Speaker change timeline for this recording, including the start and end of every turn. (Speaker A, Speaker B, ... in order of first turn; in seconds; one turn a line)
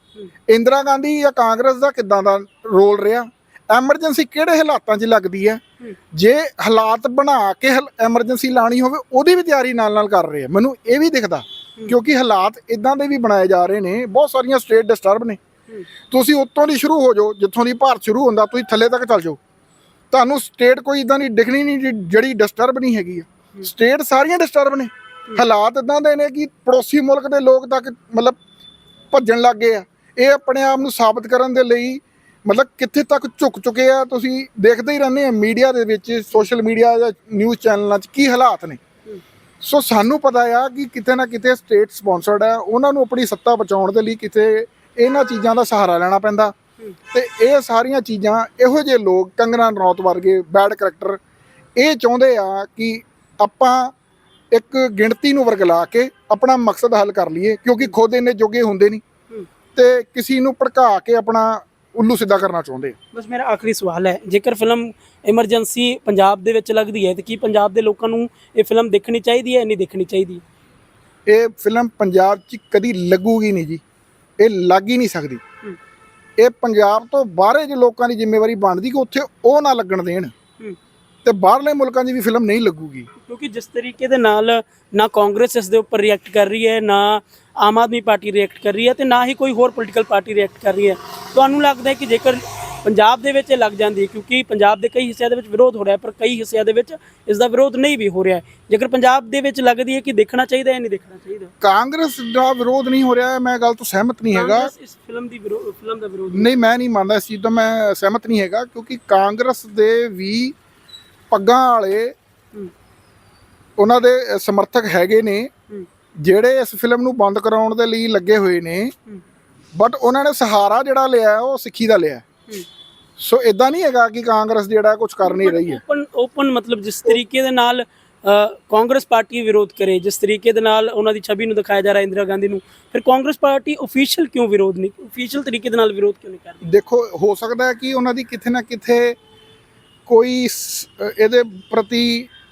Speaker A: 0.5-5.6
Speaker A: 6.1-15.4
Speaker A: 16.1-19.4
Speaker A: 20.1-28.4
Speaker A: 29.1-38.8
Speaker A: 39.6-46.5
Speaker A: 47.1-51.2
Speaker A: 51.8-53.9
Speaker A: 54.5-59.0
Speaker A: 59.8-63.0
Speaker B: 63.1-70.4
Speaker A: 71.3-73.8
Speaker A: 74.4-75.4
Speaker A: 76.4-80.3
Speaker A: 81.2-83.1
Speaker B: 83.2-101.5
Speaker A: 101.6-104.7
Speaker B: 104.3-106.7
Speaker A: 106.3-110.5
Speaker A: 111.3-112.1
Speaker A: 113.8-115.5
Speaker A: 116.2-118.9
Speaker A: 119.8-122.3
Speaker A: 123.2-125.8
Speaker B: 125.2-136.7
Speaker A: 136.6-139.2
Speaker A: 140.1-142.3